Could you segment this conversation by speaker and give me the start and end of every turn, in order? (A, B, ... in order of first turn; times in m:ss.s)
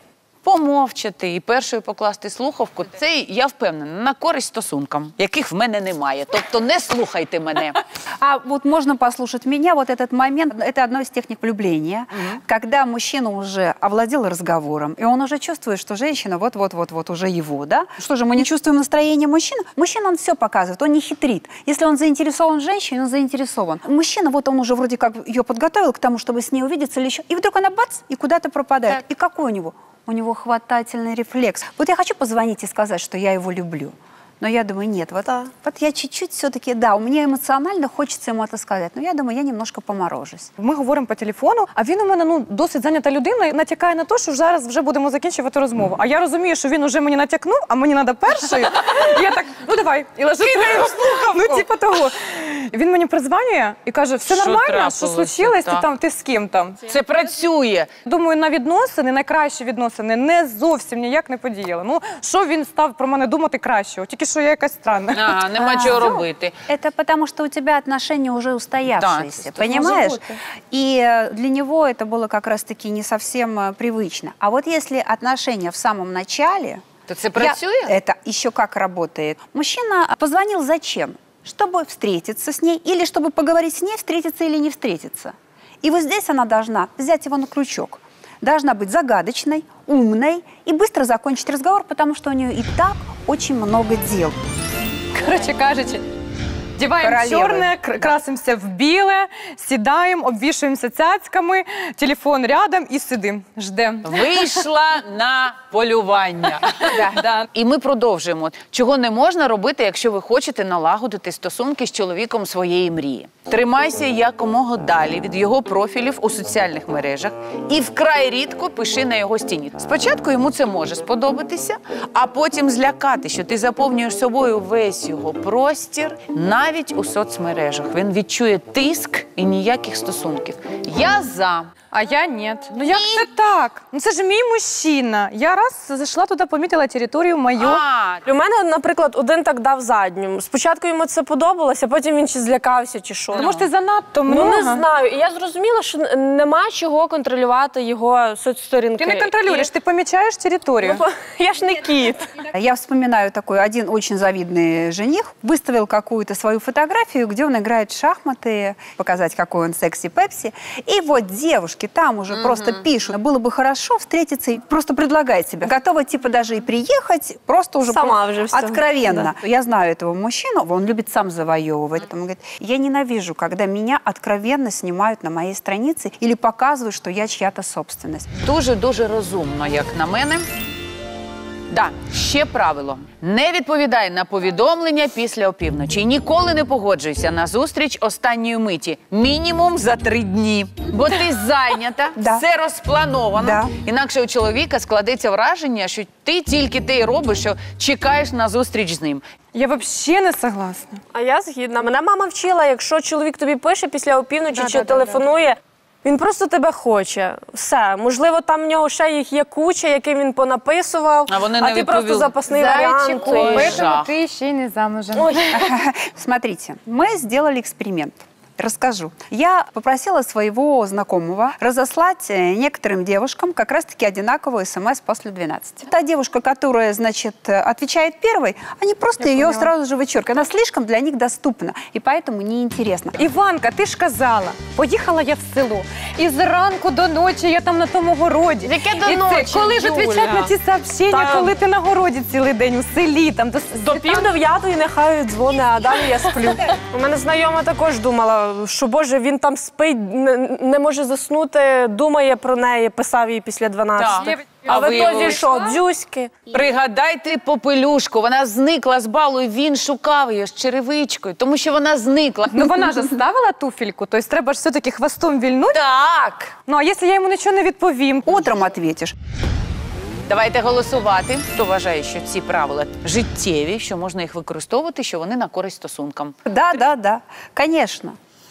0:00.4-0:07.8 A
0:08.2-0:40.5 B
0:40.6-0:56.8 C
0:54.2-0:55.8 A
0:56.9-0:57.9 A
0:58.0-1:05.4 C
1:05.1-1:06.5 A
1:05.6-1:34.3 B
1:09.0-1:10.4 A
1:17.1-1:17.9 A
1:35.1-1:36.0 C
1:36.8-1:44.4 C
1:37.0-1:37.8 B
1:44.0-2:11.7 A
1:47.1-1:47.4 C
2:11.9-2:17.8 C
2:12.8-2:13.3 A
2:17.6-2:18.3 A
2:18.2-2:23.5 D
2:23.3-2:24.8 C
2:24.2-2:29.7 D
2:29.0-2:31.0 C
2:30.8-2:32.3 D
2:32.5-2:58.3 B
2:47.8-2:49.3 D
2:58.4-3:00.4 A
3:01.7-3:19.2 A
3:12.2-3:12.4 B
3:13.3-3:13.8 B
3:19.5-3:21.0 C
3:21.1-3:33.9 D
3:24.5-3:25.2 C
3:31.3-3:34.1 A
3:32.6-3:35.6 C
3:35.5-3:53.2 B
3:49.2-3:49.7 C
3:53.2-4:04.3 C
3:58.6-4:00.5 D
4:01.1-4:01.5 D
4:03.8-4:16.3 D
4:14.0-4:15.5 A
4:16.5-4:22.8 A
4:22.5-4:25.8 C
4:25.7-4:26.5 A
4:26.6-4:28.4 C
4:28.2-4:29.1 B
4:30.3-4:36.3 A
4:36.4-4:38.2 B